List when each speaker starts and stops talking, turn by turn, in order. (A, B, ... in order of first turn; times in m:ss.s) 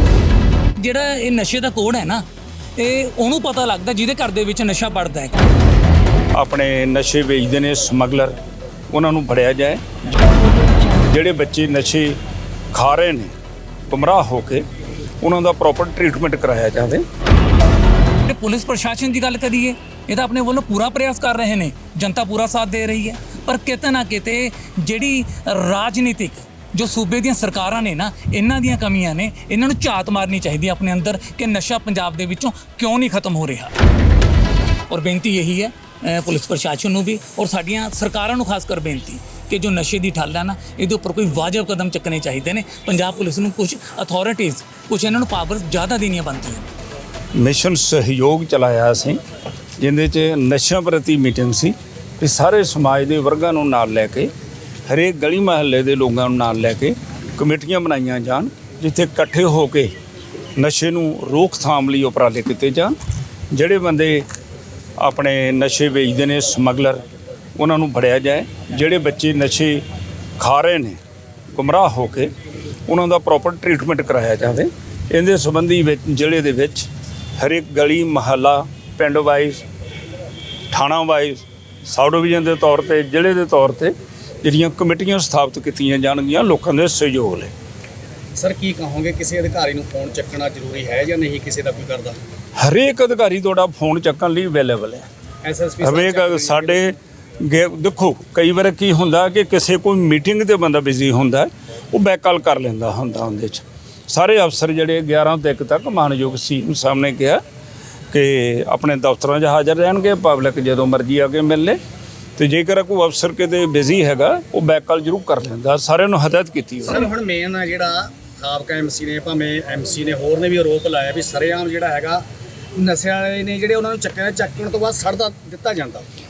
0:00.8-0:02.2 A
0:02.8-0:05.4 A
0:06.3-0:08.3 B
0:08.9-0:09.8 B
0:11.0-0:12.2 B
0:12.7-0:13.3 B
0:13.9-0:14.6 B
0:15.2-0:17.0 B
0:18.2-0:33.7 A
0:34.9-0:46.7 A
0:47.4-0:49.2 B
0:49.8-0:54.3 B
0:54.9-0:59.9 B
1:00.6-1:02.9 B
1:03.5-1:04.2 B
1:05.0-1:07.0 B
1:07.6-1:09.8 B
1:10.4-1:11.0 B
1:11.5-1:12.3 B
1:12.9-1:19.6 B
1:20.7-1:27.5 B
1:28.4-1:32.2 C
1:32.6-1:35.1 B
1:35.4-1:36.8 C
1:35.8-1:47.4 B
1:48.1-1:51.8 B
1:52.4-1:57.1 B
1:56.8-2:02.2 C
2:02.8-2:06.0 C